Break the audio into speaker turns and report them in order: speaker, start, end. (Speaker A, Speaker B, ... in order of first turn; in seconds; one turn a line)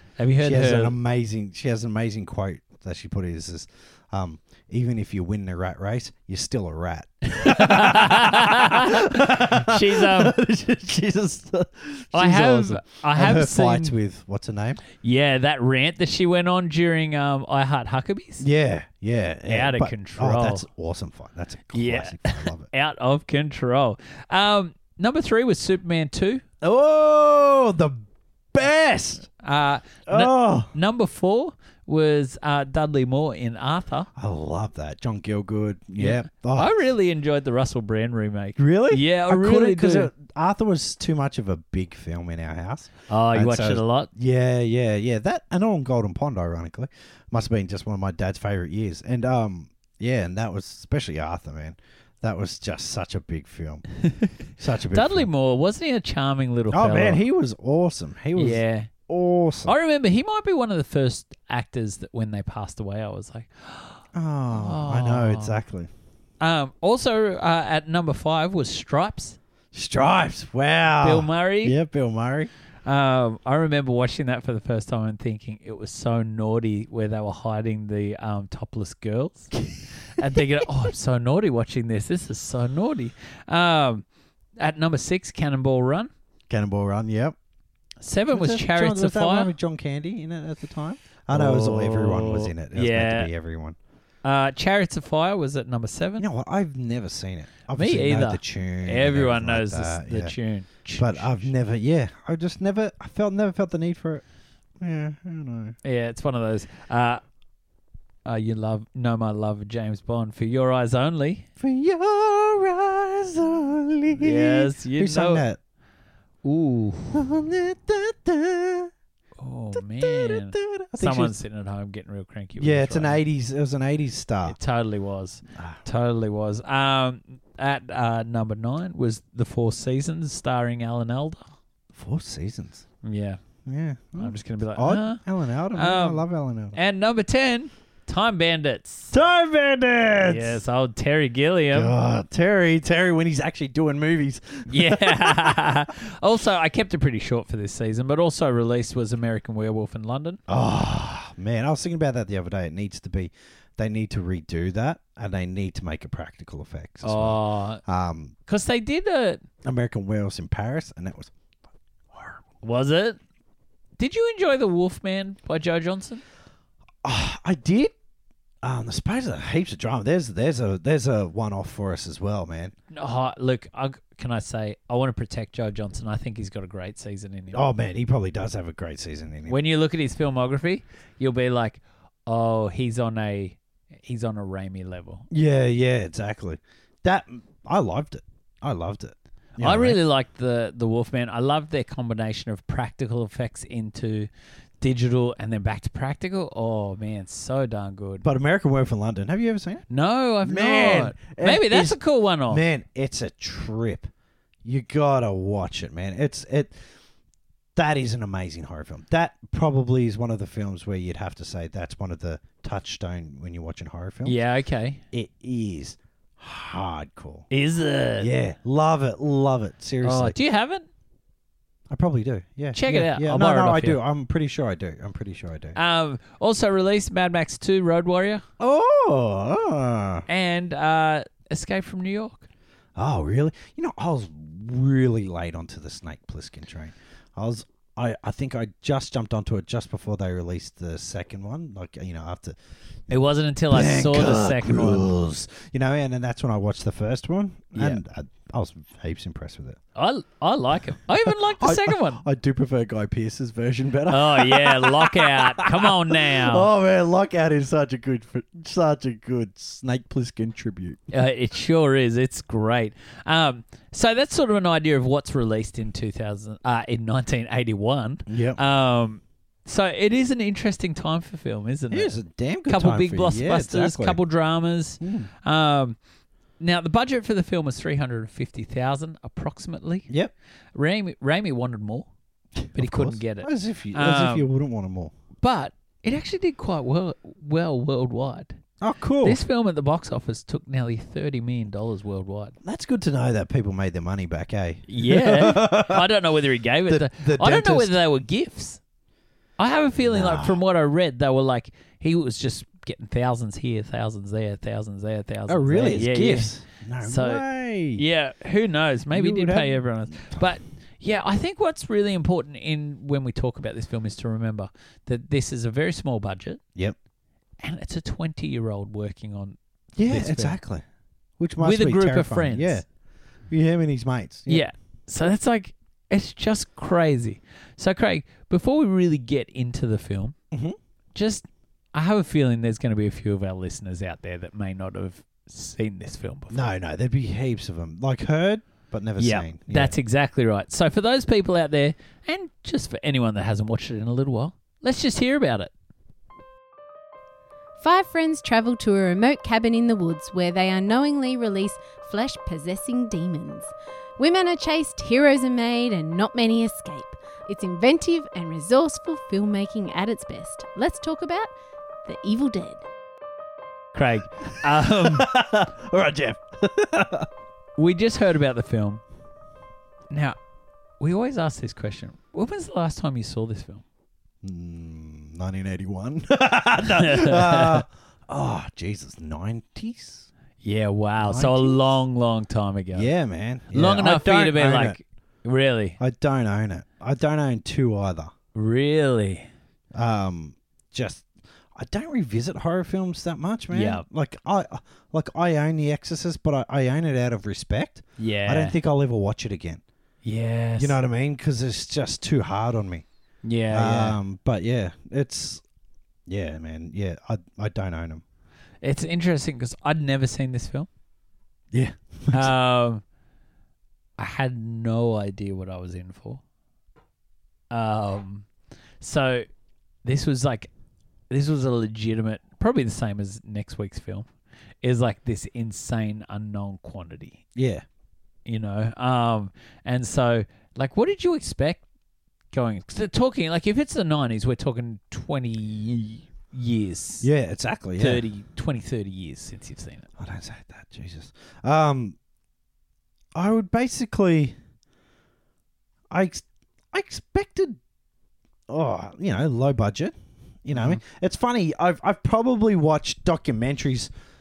Speaker A: 0.2-0.9
Speaker B: 0.4-14.8
Speaker A: 7.3-10.3
Speaker A: 12.1-13.9
Speaker A: 15.0-18.4
Speaker B: 18.4-22.7
Speaker A: 19.5-20.6
Speaker A: 21.7-26.4
Speaker B: 26.6-29.3
Speaker A: 29.4-34.1
Speaker B: 30.1-30.7
Speaker B: 34.1-36.8
Speaker A: 36.0-40.1
Speaker B: 38.6-53.8
Speaker A: 43.1-44.1
Speaker B: 54.6-55.3
Speaker A: 54.9-57.2
Speaker B: 56.7-59.7
Speaker A: 58.4-58.9
Speaker A: 59.7-65.6
Speaker B: 64.1-65.9
Speaker A: 66.4-69.4
Speaker B: 69.7-72.5
Speaker A: 71.0-71.8
Speaker A: 72.8-79.5
Speaker A: 80.1-84.0
Speaker A: 84.6-86.1
Speaker B: 86.5-87.3
Speaker A: 88.0-89.5
Speaker B: 88.3-93.8
Speaker A: 91.3-93.3
Speaker A: 94.2-96.2
Speaker B: 96.2-100.3
Speaker A: 97.7-101.5
Speaker B: 100.9-104.2
Speaker B: 104.8-105.7
Speaker A: 105.8-107.2
Speaker A: 108.2-111.5
Speaker B: 111.6-115.6
Speaker A: 114.2-115.4
Speaker A: 116.4-117.2
Speaker B: 117.1-118.9
Speaker A: 119.4-123.2
Speaker B: 119.7-121.3
Speaker B: 122.6-124.6
Speaker A: 124.5-131.5
Speaker B: 125.5-125.8
Speaker B: 131.9-132.8
Speaker A: 133.0-133.4
Speaker B: 133.7-136.8
Speaker A: 134.2-135.2
Speaker A: 135.7-139.1
Speaker B: 139.1-140.6
Speaker A: 140.2-141.9
Speaker B: 141.7-145.8
Speaker A: 144.7-150.4
Speaker B: 150.5-158.3
Speaker A: 157.0-157.8
Speaker A: 158.5-159.4
Speaker B: 159.6-161.3
Speaker B: 162.1-162.4
Speaker A: 162.6-163.2
Speaker A: 164.0-166.2
Speaker B: 167.0-167.9
Speaker B: 168.6-172.7
Speaker A: 172.9-177.6
Speaker B: 177.5-179.6
Speaker A: 179.5-185.3
Speaker B: 185.3-190.0
Speaker A: 189.6-194.3
Speaker A: 194.8-198.2
Speaker B: 198.2-199.8
Speaker A: 199.9-202.6
Speaker B: 200.4-204.1
Speaker B: 204.6-206.8
Speaker B: 207.7-214.4
Speaker A: 214.2-215.0
Speaker B: 215.1-217.5
Speaker A: 217.5-218.3
Speaker B: 218.2-220.3
Speaker A: 220.0-220.8
Speaker B: 221.9-225.8
Speaker A: 222.7-224.0
Speaker A: 225.7-228.4
Speaker B: 228.6-230.2
Speaker A: 230.3-232.5
Speaker B: 232.9-242.6
Speaker A: 243.1-245.1
Speaker B: 243.7-249.8
Speaker A: 247.7-248.0
Speaker A: 249.9-252.2
Speaker B: 251.2-261.1
Speaker A: 254.1-256.7
Speaker A: 261.1-272.1
Speaker B: 268.3-268.6
Speaker B: 271.9-274.2
Speaker A: 272.7-276.0
Speaker B: 275.0-275.3
Speaker A: 276.6-280.1
Speaker A: 280.7-282.1
Speaker B: 282.6-285.1
Speaker A: 282.7-284.5
Speaker A: 285.4-288.6
Speaker B: 288.8-289.4
Speaker A: 289.2-292.5
Speaker B: 292.6-296.1
Speaker A: 294.9-298.8
Speaker B: 296.9-298.0
Speaker A: 299.6-307.4
Speaker B: 300.0-300.6
Speaker B: 305.5-308.0
Speaker A: 307.9-316.6
Speaker B: 309.1-310.5
Speaker A: 317.6-320.6
Speaker B: 320.0-320.8
Speaker B: 321.4-322.8
Speaker A: 321.6-322.8
Speaker B: 323.5-324.6
Speaker A: 324.5-330.3
Speaker B: 330.5-330.8
Speaker A: 331.1-336.6
Speaker B: 336.5-339.9
Speaker A: 339.2-345.7
Speaker C: 347.8-361.5
Speaker C: 362.1-362.8
Speaker A: 363.9-365.3
Speaker B: 364.5-367.3
Speaker A: 367.8-369.0
Speaker A: 370.1-370.4
Speaker A: 371.0-373.8
Speaker B: 374.4-380.3
Speaker A: 376.9-377.8
Speaker A: 380.6-383.1
Speaker B: 381.2-381.9
Speaker B: 382.9-385.0
Speaker A: 383.7-386.0
Speaker B: 386.0-388.3
Speaker A: 388.5-389.5
Speaker B: 389.9-399.8
Speaker A: 393.7-394.0
Speaker A: 398.2-398.8
Speaker A: 400.2-401.0
Speaker B: 400.8-403.0
Speaker A: 403.4-404.2
Speaker B: 403.7-405.6
Speaker B: 406.3-408.2
Speaker A: 408.8-410.9
Speaker B: 411.7-412.5
Speaker A: 412.3-413.0
Speaker A: 414.2-416.4
Speaker A: 417.7-418.5
Speaker A: 419.0-419.4
Speaker A: 420.0-420.7
Speaker A: 421.3-424.3
Speaker A: 424.8-427.4
Speaker B: 427.5-427.8
Speaker A: 428.4-431.8
Speaker A: 432.5-437.3
Speaker B: 437.2-438.2
Speaker A: 438.0-440.1
Speaker B: 440.2-442.2
Speaker B: 443.3-444.6
Speaker B: 446.1-447.8
Speaker B: 448.7-454.1
Speaker A: 450.7-451.0